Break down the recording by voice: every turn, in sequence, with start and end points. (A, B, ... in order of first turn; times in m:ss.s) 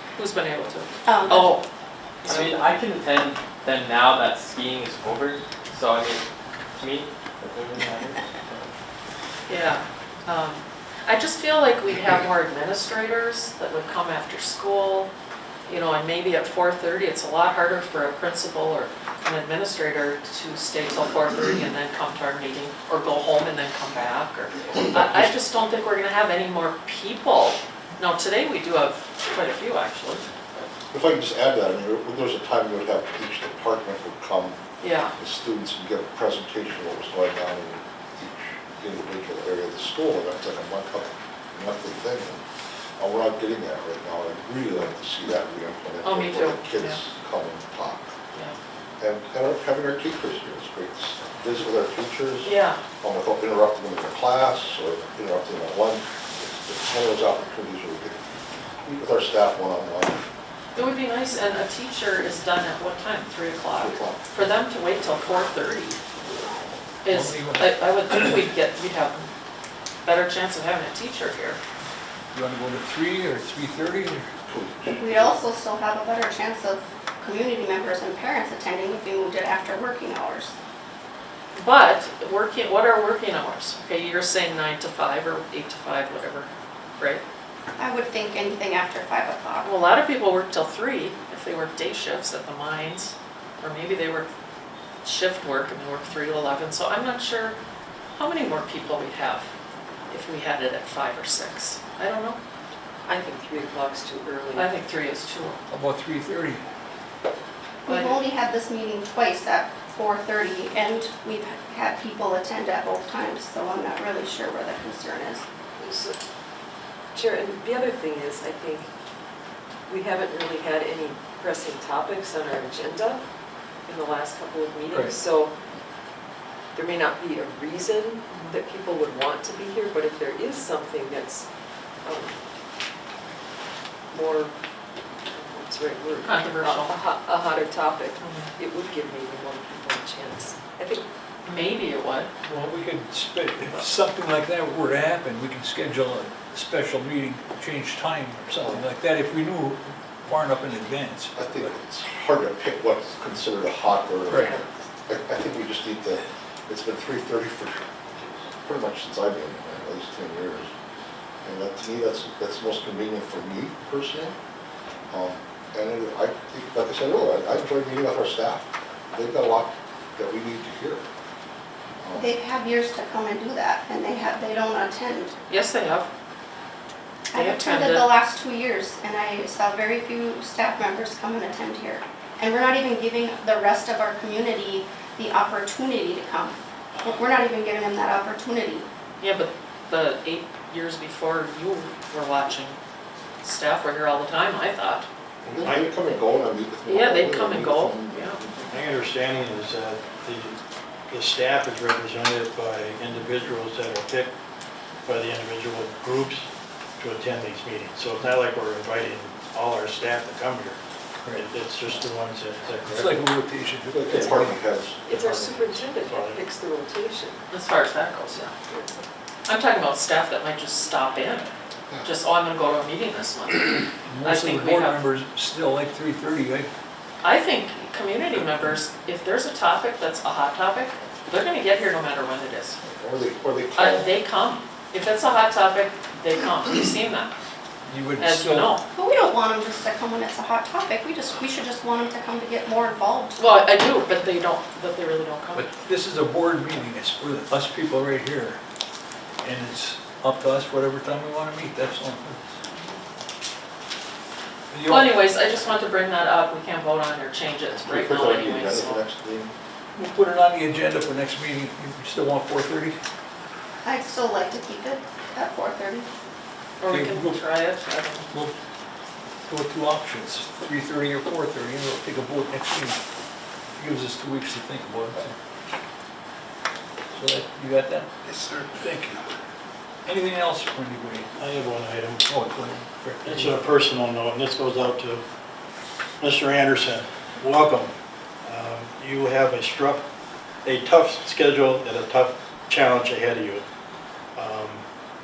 0:00.2-0:01.6 A
0:01.1-0:01.6 B
0:02.2-0:06.2 C
0:02.3-0:02.6 A
0:06.8-0:08.7 C
0:09.5-0:15.1 A
0:15.7-0:30.7 A
0:30.9-0:34.6 D
0:34.8-0:35.1 A
0:35.2-0:42.4 D
0:43.0-0:48.1 D
0:46.0-0:47.0 A
0:49.0-0:58.2 D
0:52.4-0:52.8 A
0:58.8-1:00.2 D
1:00.8-1:06.0 A
1:03.8-1:04.2 D
1:07.0-1:09.3 A
1:07.1-1:08.0 E
1:10.0-1:11.6 A
1:12.3-1:14.3 E
1:14.5-1:15.4 D
1:15.0-1:20.5 B
1:21.6-1:26.5 A
1:27.8-1:29.7 B
1:29.6-1:34.3 A
1:35.0-1:37.6 A
1:38.2-1:39.5 A
1:40.1-1:42.4 A
1:43.1-1:44.7 F
1:44.5-1:45.6 A
1:45.7-1:46.6 E
1:47.9-1:55.4 B
1:47.9-1:48.2 A
1:55.8-1:56.2 F
1:57.1-1:58.9 F
1:59.9-2:03.2 F
2:03.9-2:05.5 F
2:06.7-2:11.5 F
2:08.3-2:08.6 A
2:12.0-2:12.4 F
2:14.1-2:14.5 F
2:15.3-2:21.1 F
2:16.2-2:17.0 A
2:18.2-2:18.5 A
2:21.5-2:22.3 A
2:22.4-2:31.7 E
2:31.4-2:40.7 D
2:34.3-2:34.6 E
2:41.4-2:44.4 D
2:45.1-2:51.0 D
2:52.0-2:52.3 D
2:52.2-2:55.4 B
2:55.5-2:56.1 A
2:57.3-3:08.9 B
2:57.3-2:58.1 A
3:09.2-3:12.8 A
3:13.4-3:15.1 A
3:15.4-3:18.7 D
3:15.5-3:15.9 G
3:16.9-3:18.4 A
3:18.7-3:20.6 G
3:21.1-3:24.3 G
3:25.1-3:26.5 G
3:27.0-3:30.8 G
3:31.3-3:33.0 G
3:32.9-3:33.1 D
3:32.9-3:34.6 E
3:33.9-3:35.6 D
3:35.1-3:37.4 F
3:36.0-3:36.4 G
3:37.5-3:38.5 A
3:38.7-3:39.0 F
3:39.5-3:41.5 A
3:42.0-3:45.0 A
3:44.1-3:46.7 E
3:47.2-3:52.8 A
3:52.8-3:54.1 D
3:53.8-3:57.3 A
3:57.9-3:58.8 E
3:58.2-3:58.8 A
3:58.9-4:03.4 B
4:03.4-4:05.7 A
4:05.5-4:08.6 E
4:09.4-4:12.4 E
4:14.7-4:15.2 E
4:14.9-4:19.0 A
4:17.7-4:19.5 D
4:20.0-4:23.0 E
4:23.8-4:26.1 B
4:26.8-4:28.3 A
4:26.9-4:27.4 E
4:29.5-4:33.0 E
4:33.8-4:35.3 E
4:37.2-4:39.2 E
4:40.0-4:41.3 E
4:41.4-4:42.3 G
4:42.3-4:43.7 E
4:43.2-4:45.2 G
4:46.2-4:47.9 G
4:48.4-4:50.0 G
4:50.6-4:53.6 G
4:54.4-4:54.8 G